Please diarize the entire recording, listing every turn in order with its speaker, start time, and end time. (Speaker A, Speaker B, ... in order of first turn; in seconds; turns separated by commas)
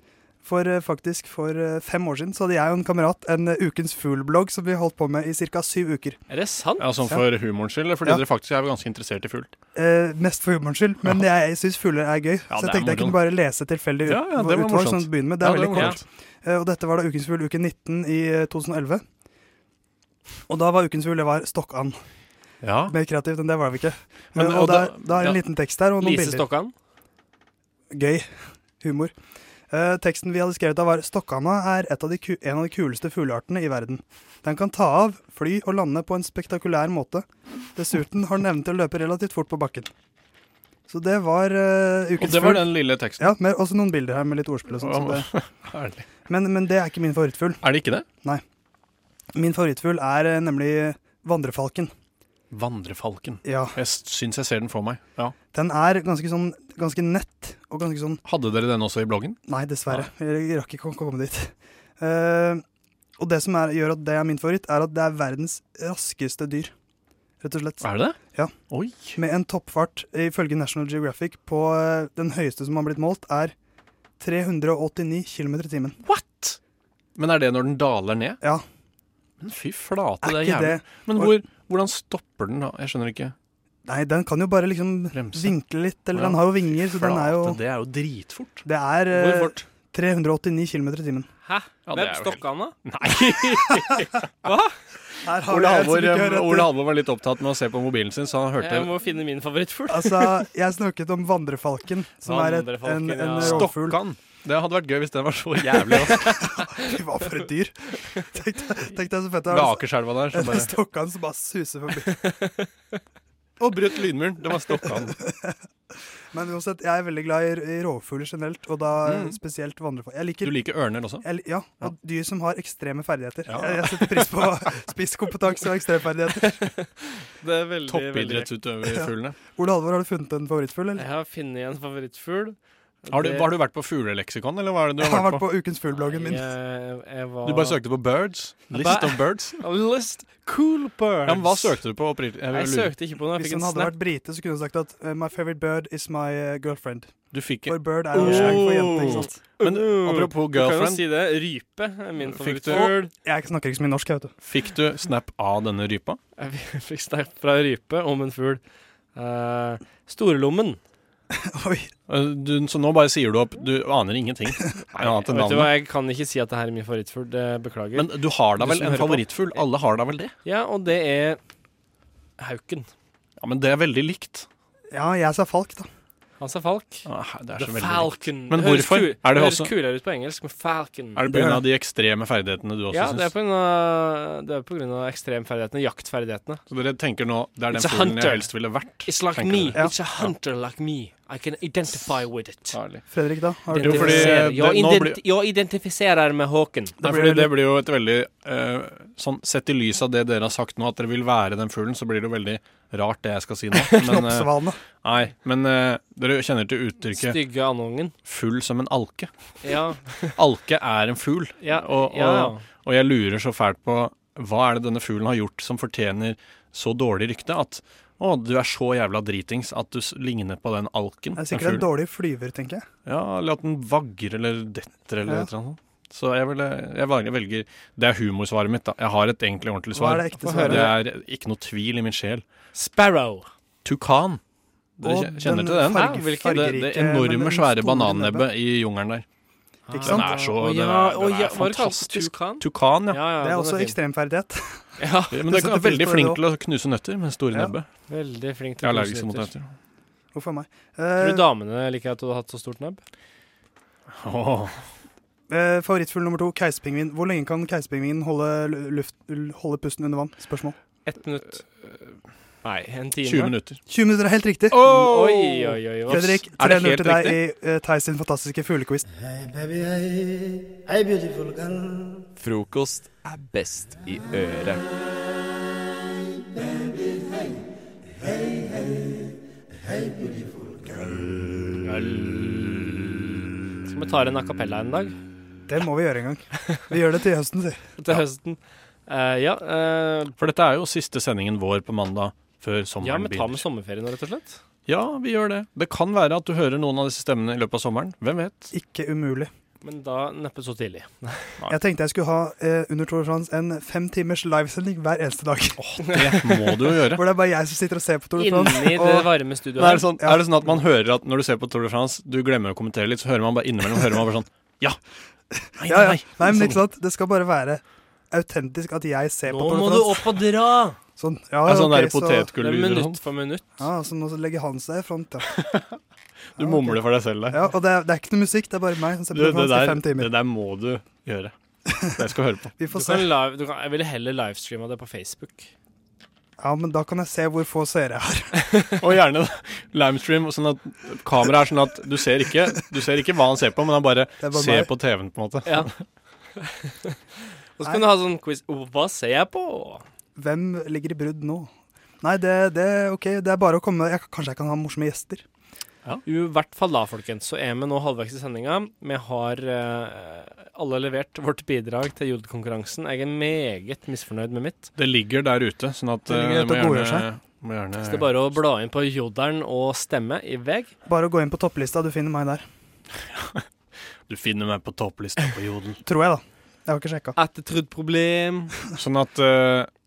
Speaker A: 0.4-6.2, Speaker B: 6.3-6.9, Speaker C: 6.8-9.5, Speaker A: 9.8-19.0, Speaker C: 12.5-13.2, Speaker C: 14.1-16.0, Speaker B: 15.7-16.0, Speaker A: 20.5-22.0, Speaker C: 22.6-22.9, Speaker A: 22.9-26.5, Speaker C: 24.4-25.4, Speaker B: 26.0-26.7, Speaker A: 27.9-29.1, Speaker A: 29.7-39.9, Speaker A: 40.9-45.3, Speaker C: 42.2-43.3, Speaker C: 44.8-46.1, Speaker A: 46.3-47.6, Speaker C: 47.6-48.0, Speaker A: 49.4-51.9, Speaker C: 52.5-55.4, Speaker A: 53.5-53.8, Speaker A: 55.5-58.2, Speaker C: 58.3-59.4, Speaker A: 59.5-62.6, Speaker A: 63.2-66.7, Speaker A: 67.4-68.5, Speaker C: 67.8-68.2, Speaker C: 68.7-69.2, Speaker A: 69.2-73.5, Speaker A: 74.2-76.0, Speaker C: 76.0-76.6, Speaker C: 77.2-78.4, Speaker C: 79.4-83.3, Speaker A: 80.2-81.3, Speaker A: 83.8-87.6, Speaker C: 85.1-85.5, Speaker C: 86.1-88.7, Speaker A: 88.7-91.3, Speaker B: 89.1-89.6, Speaker B: 91.5-92.8, Speaker C: 91.9-94.1, Speaker B: 94.4-94.7, Speaker A: 95.2-96.7, Speaker C: 95.5-98.9, Speaker B: 98.6-100.4, Speaker A: 99.9-104.0, Speaker B: 102.2-103.7, Speaker C: 103.4-106.5, Speaker B: 106.1-106.9, Speaker A: 106.6-112.2, Speaker C: 109.5-110.7, Speaker B: 112.2-112.7, Speaker C: 113.6-115.2, Speaker A: 115.1-115.6, Speaker A: 116.3-120.7, Speaker C: 119.0-119.4, Speaker C: 120.4-121.2, Speaker A: 121.2-126.7, Speaker C: 123.5-124.4, Speaker B: 126.5-128.5, Speaker C: 127.9-129.4, Speaker A: 128.8-131.0, Speaker B: 131.0-133.5, Speaker C: 133.1-135.4, Speaker A: 135.0-136.5, Speaker B: 136.0-137.8, Speaker C: 137.4-139.6, Speaker B: 138.7-141.7, Speaker C: 141.3-142.9, Speaker B: 142.5-143.9, Speaker A: 143.3-147.2, Speaker C: 147.3-151.1, Speaker A: 147.7-149.4, Speaker B: 148.1-153.1, Speaker C: 152.3-153.0, Speaker A: 153.2-154.3, Speaker C: 154.4-156.2, Speaker B: 156.4-158.6, Speaker B: 159.2-160.8, Speaker A: 161.3-161.9, Speaker C: 162.1-165.8, Speaker B: 165.0-169.6, Speaker C: 167.9-170.3, Speaker B: 170.4-171.4, Speaker B: 172.4-172.9, Speaker C: 173.4-174.5, Speaker A: 174.9-175.9, Speaker B: 176.4-177.1, Speaker C: 177.1-179.7, Speaker B: 177.6-181.2, Speaker C: 181.2-183.3, Speaker A: 181.3-181.7, Speaker B: 182.9-186.6, Speaker C: 186.7-190.3, Speaker B: 187.7-188.5, Speaker B: 189.1-192.8, Speaker C: 192.7-193.0, Speaker A: 193.1-194.4, Speaker B: 193.7-197.0, Speaker C: 193.8-195.2, Speaker A: 197.0-197.6, Speaker C: 197.0-204.5, Speaker A: 203.9-204.8, Speaker C: 205.0-207.4, Speaker B: 207.2-208.1, Speaker C: 208.3-209.3, Speaker B: 209.6-210.3, Speaker C: 210.4-221.9, Speaker B: 211.6-212.6, Speaker A: 221.3-222.9, Speaker C: 223.1-232.4, Speaker A: 225.2-225.5, Speaker A: 229.9-230.9, Speaker B: 230.4-231.0, Speaker B: 232.7-233.5, Speaker C: 233.8-234.4, Speaker C: 235.0-239.2, Speaker A: 235.0-238.5, Speaker B: 235.9-236.7, Speaker B: 239.9-244.0, Speaker A: 239.9-240.3, Speaker C: 240.0-243.2, Speaker A: 243.4-246.4, Speaker B: 245.0-245.4, Speaker C: 245.3-247.9, Speaker B: 248.1-249.5, Speaker C: 248.8-249.7, Speaker A: 250.3-251.5, Speaker B: 251.2-253.0, Speaker C: 254.1-254.8, Speaker A: 255.5-260.8, Speaker B: 261.1-261.6, Speaker B: 262.6-263.5, Speaker C: 263.2-263.8, Speaker A: 263.9-264.8, Speaker C: 264.7-267.4, Speaker B: 264.8-266.4, Speaker A: 266.1-269.1, Speaker D: 272.4-274.8, Speaker B: 281.8-285.2, Speaker A: 285.7-287.9, Speaker B: 288.0-290.3, Speaker C: 290.4-293.6, Speaker B: 293.0-294.6, Speaker C: 294.9-298.7, Speaker A: 298.7-299.5, Speaker B: 299.8-301.6, Speaker A: 301.7-305.8, Speaker C: 305.8-307.2, Speaker A: 307.1-309.3, Speaker B: 308.4-310.1, Speaker C: 309.8-315.0, Speaker A: 310.2-310.7, Speaker A: 315.6-320.4, Speaker C: 315.8-316.8, Speaker B: 319.5-321.0, Speaker A: 321.2-322.5, Speaker C: 321.6-323.2, Speaker B: 322.6-323.7, Speaker A: 323.8-325.5, Speaker C: 325.5-326.0, Speaker C: 326.6-327.6, Speaker A: 326.6-330.3, Speaker C: 329.3-332.7, Speaker A: 331.9-332.1, Speaker A: 332.8-333.3, Speaker B: 332.9-335.7, Speaker A: 336.6-338.5, Speaker B: 338.6-339.0, Speaker C: 339.0-346.0, Speaker A: 344.4-344.9, Speaker B: 346.6-347.2, Speaker B: 347.8-350.1, Speaker A: 350.4-355.4, Speaker B: 356.3-364.9, Speaker C: 365.0-368.6, Speaker A: 366.3-367.3, Speaker B: 368.0-370.9, Speaker A: 371.1-372.6, Speaker C: 373.3-373.6, Speaker C: 374.3-376.0, Speaker A: 376.0-377.4, Speaker B: 377.4-378.8, Speaker C: 378.9-379.9